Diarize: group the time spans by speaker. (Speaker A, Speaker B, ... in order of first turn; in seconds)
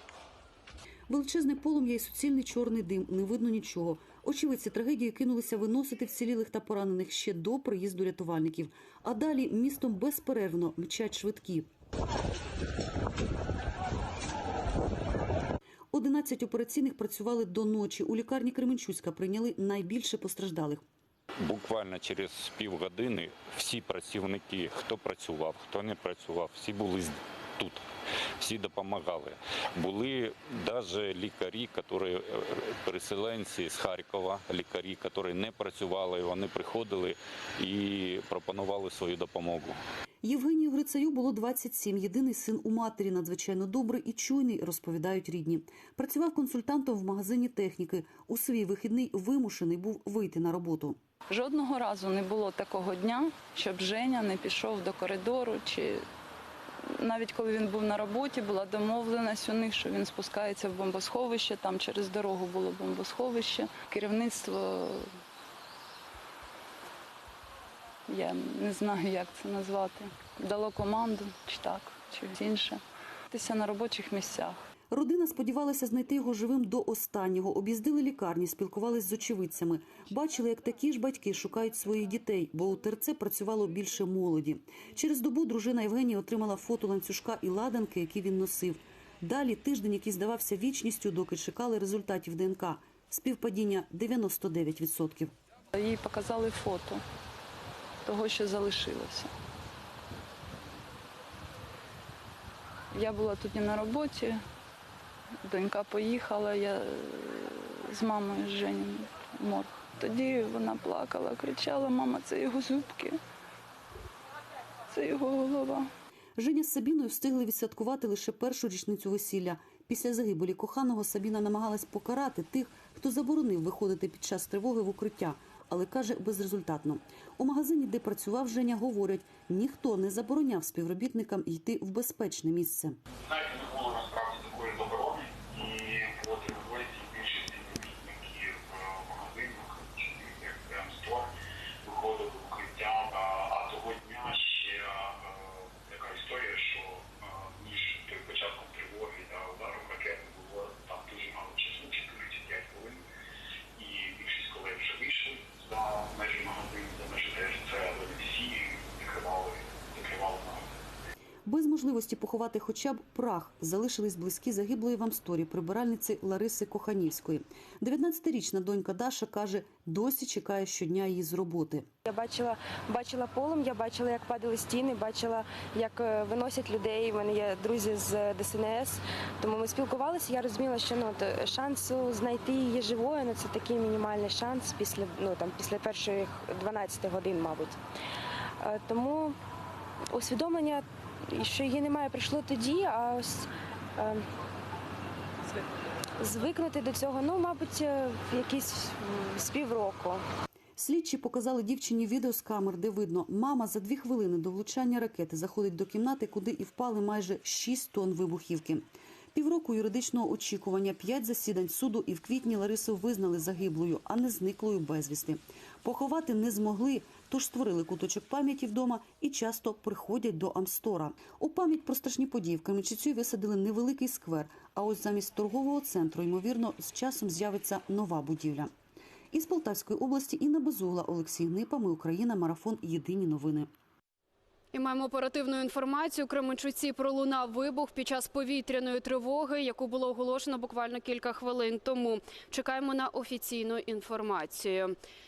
Speaker A: 1.1-11.7, 15.9-20.8, 40.2-51.0, 74.9-95.3, 116.4-133.0, 161.4-171.8, 200.8-228.7, 229.3-233.7
Speaker B: 21.4-27.8, 28.4-39.8
Speaker C: 51.3-56.0, 57.0-65.1, 68.1-74.6, 95.7-97.0, 98.0-99.3, 102.9-104.4, 105.5-113.2, 114.9-115.9
Speaker D: 133.2-141.3, 141.8-144.8, 145.8-147.1, 147.6-153.0, 153.8-160.6
Speaker E: 172.1-187.8, 188.6-189.3, 190.2-190.8, 191.3-193.4, 196.2-200.2
Speaker F: 234.7-244.9